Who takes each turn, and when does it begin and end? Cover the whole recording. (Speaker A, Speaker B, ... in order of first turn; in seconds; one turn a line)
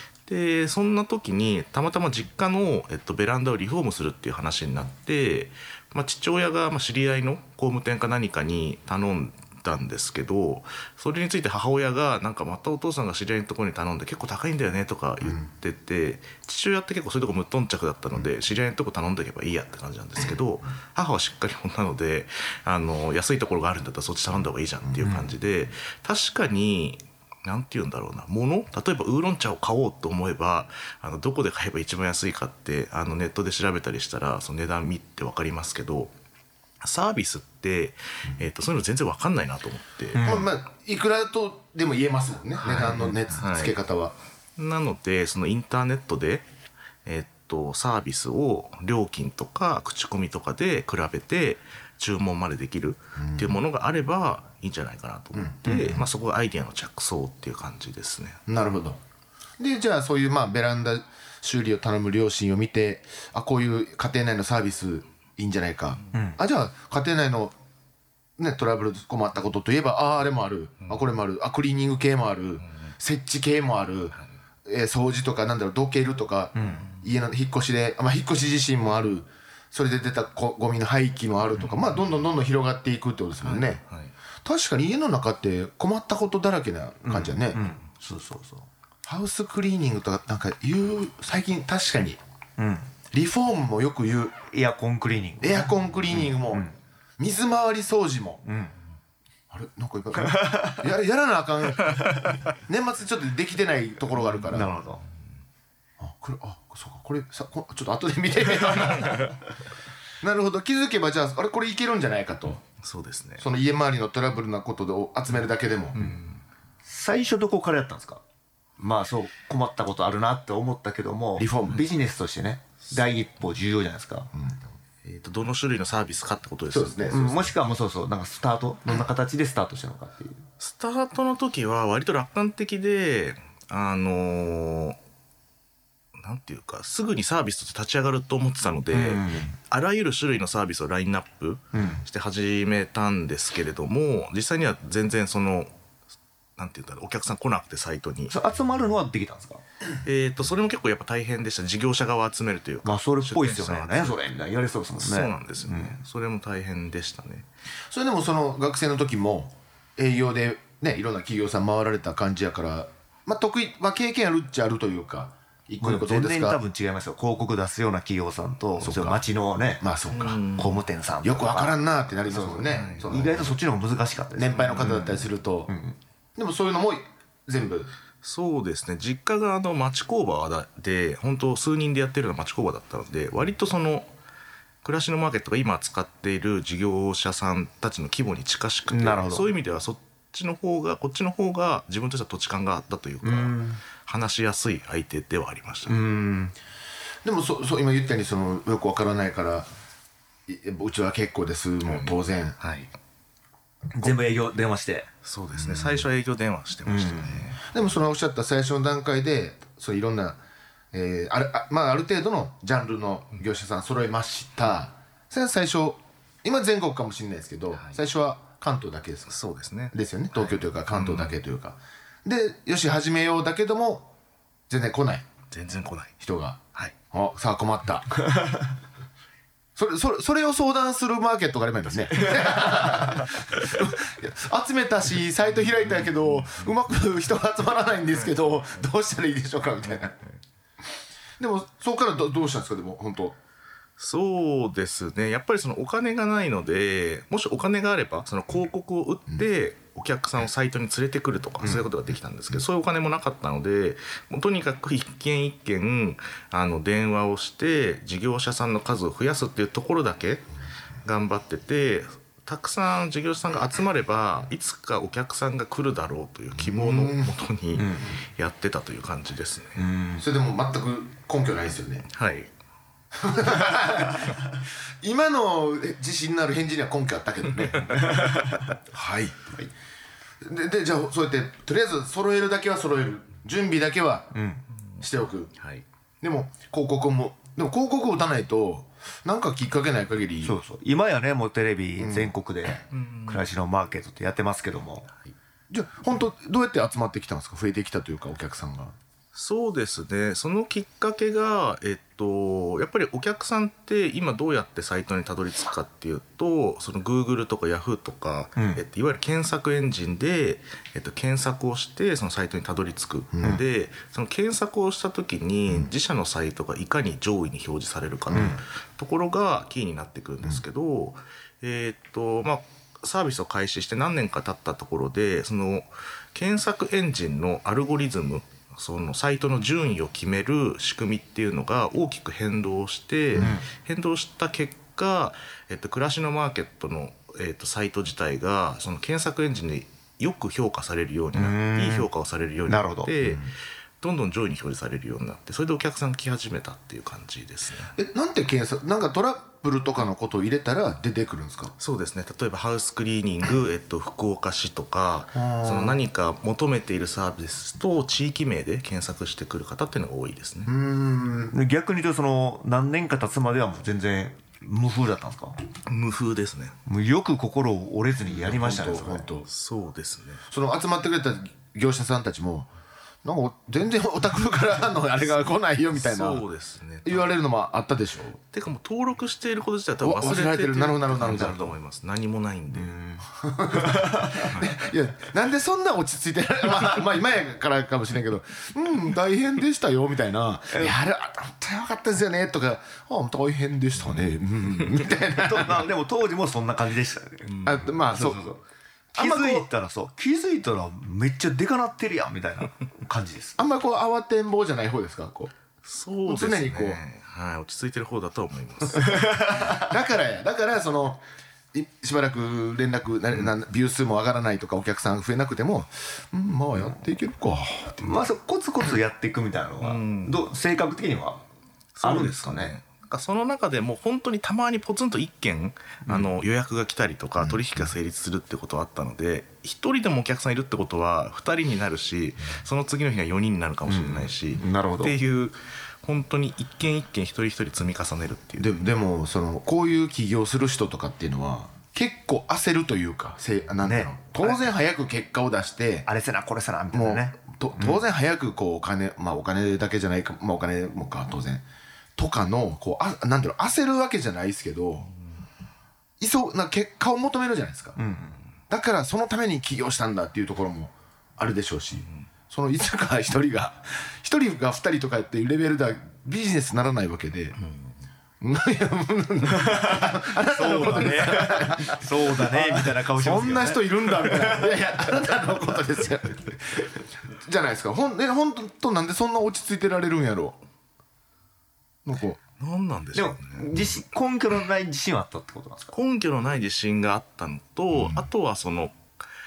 Speaker A: 0.3-36.1
Speaker B: 25.0-25.3
Speaker A: 36.8-40.3
Speaker B: 40.1-40.5
Speaker C: 40.2-44.1
Speaker B: 42.6-43.2
Speaker A: 43.4-43.8
Speaker A: 44.6-46.5
Speaker A: 47.1-58.4
Speaker C: 53.2-53.6
Speaker B: 55.7-56.0
Speaker C: 58.5-59.0
Speaker C: 59.6-67.5
Speaker B: 66.1-66.4
Speaker C: 68.4-83.8
Speaker B: 76.5-76.8
Speaker A: 83.4-84.1
Speaker C: 84.4-87.6
Speaker B: 87.0-88.7
Speaker C: 89.0-92.2
Speaker B: 92.6-92.9
Speaker C: 93.1-94.4
Speaker B: 94.5-96.8
Speaker C: 95.4-96.7
Speaker C: 97.2-98.4
Speaker B: 98.5-98.8
Speaker C: 99.5-104.7
Speaker B: 100.3-100.8
Speaker B: 104.5-105.0
Speaker C: 106.0-109.3
Speaker A: 109.0-109.2
Speaker C: 110.2-112.6
Speaker A: 112.8-113.5
Speaker C: 113.4-116.0
Speaker A: 116.0-116.4
Speaker B: 116.8-118.2
Speaker B: 118.8-124.3
Speaker C: 121.4-121.9
Speaker A: 125.0-127.5
Speaker C: 126.7-127.3
Speaker B: 127.1-130.4
Speaker A: 130.6-135.0
Speaker A: 136.2-145.7
Speaker B: 138.9-139.6
Speaker B: 141.7-142.0
Speaker A: 146.6-148.3
Speaker B: 148.3-149.6
Speaker A: 150.0-154.2
Speaker B: 152.8-156.0
Speaker A: 155.0-157.5
Speaker C: 157.9-166.6
Speaker B: 165.8-175.1
Speaker C: 168.8-169.2
Speaker C: 169.8-170.4
Speaker A: 170.1-170.8
Speaker C: 171.2-173.6
Speaker A: 172.7-173.1
Speaker C: 174.4-175.7
Speaker A: 174.6-175.2
Speaker B: 175.7-176.0
Speaker C: 176.4-177.9
Speaker A: 178.2-184.1
Speaker A: 184.8-196.0
Speaker B: 188.9-189.5
Speaker B: 193.2-193.8
Speaker B: 195.9-196.6
Speaker C: 197.2-199.7
Speaker C: 200.5-202.6
Speaker A: 201.9-202.9
Speaker B: 203.9-205.1
Speaker A: 205.2-207.6
Speaker C: 205.8-206.0
Speaker B: 206.9-207.5
Speaker C: 207.7-210.4
Speaker C: 210.9-219.4
Speaker A: 219.3-221.3
Speaker C: 219.9-224.1
Speaker C: 224.7-225.2
Speaker A: 225.5-226.2
Speaker C: 226.2-228.3
Speaker C: 229.8-240.2
Speaker A: 235.8-236.7
Speaker A: 238.2-238.6
Speaker C: 241.4-243.4
Speaker A: 244.0-260.5
Speaker A: 261.0-269.8
Speaker C: 266.6-267.4
Speaker B: 267.8-268.2
Speaker B: 269.8-270.2
Speaker C: 270.2-272.1
Speaker A: 272.1-272.5
Speaker C: 273.1-278.4
Speaker A: 277.7-278.2
Speaker B: 277.9-278.6
Speaker C: 278.9-279.5
Speaker C: 280.4-284.3
Speaker B: 284.3-284.6
Speaker C: 285.0-285.5
Speaker A: 285.6-285.8
Speaker C: 286.2-290.6
Speaker B: 290.4-295.1
Speaker C: 292.0-292.3
Speaker A: 292.9-293.5
Speaker C: 295.7-298.9
Speaker A: 299.3-347.9
Speaker B: 308.6-308.8
Speaker C: 318.3-318.6
Speaker B: 318.3-318.6
Speaker B: 333.4-333.7
Speaker B: 341.3-342.1
Speaker B: 342.7-343.1
Speaker C: 343.2-343.5
Speaker C: 347.9-351.7
Speaker A: 351.8-360.7
Speaker C: 355.4-356.0
Speaker C: 360.7-361.5
Speaker B: 361.5-365.6
Speaker A: 365.9-366.8
Speaker B: 366.9-369.3
Speaker C: 368.3-369.5
Speaker A: 369.5-370.4
Speaker C: 370.5-372.7
Speaker C: 373.2-376.4
Speaker A: 375.9-377.3
Speaker C: 377.1-378.4
Speaker A: 378.5-383.0
Speaker C: 380.0-381.8
Speaker B: 381.2-381.5
Speaker B: 382.7-384.5
Speaker C: 383.4-395.9
Speaker A: 384.5-384.8
Speaker B: 390.7-390.9
Speaker B: 395.2-398.6
Speaker A: 397.5-397.8
Speaker C: 397.6-398.5
Speaker B: 399.1-403.6
Speaker C: 399.2-399.7
Speaker C: 403.6-405.5
Speaker A: 405.8-409.6
Speaker C: 406.3-407.0
Speaker B: 409.1-409.9
Speaker C: 409.7-418.2
Speaker B: 418.0-421.4
Speaker A: 419.8-420.5
Speaker A: 422.0-438.7
Speaker B: 422.0-422.7
Speaker B: 433.9-435.2
Speaker C: 438.6-446.1
Speaker B: 443.8-444.6
Speaker B: 446.1-448.0
Speaker C: 446.9-451.6
Speaker C: 452.2-455.1
Speaker C: 456.2-458.0
Speaker B: 458.0-458.4
Speaker C: 458.7-467.6
Speaker A: 467.6-468.0
Speaker C: 468.4-480.6
Speaker B: 469.5-474.8
Speaker C: 482.1-482.4
Speaker A: 482.6-483.9
Speaker B: 483.1-485.9
Speaker A: 485.9-489.0
Speaker C: 487.9-488.2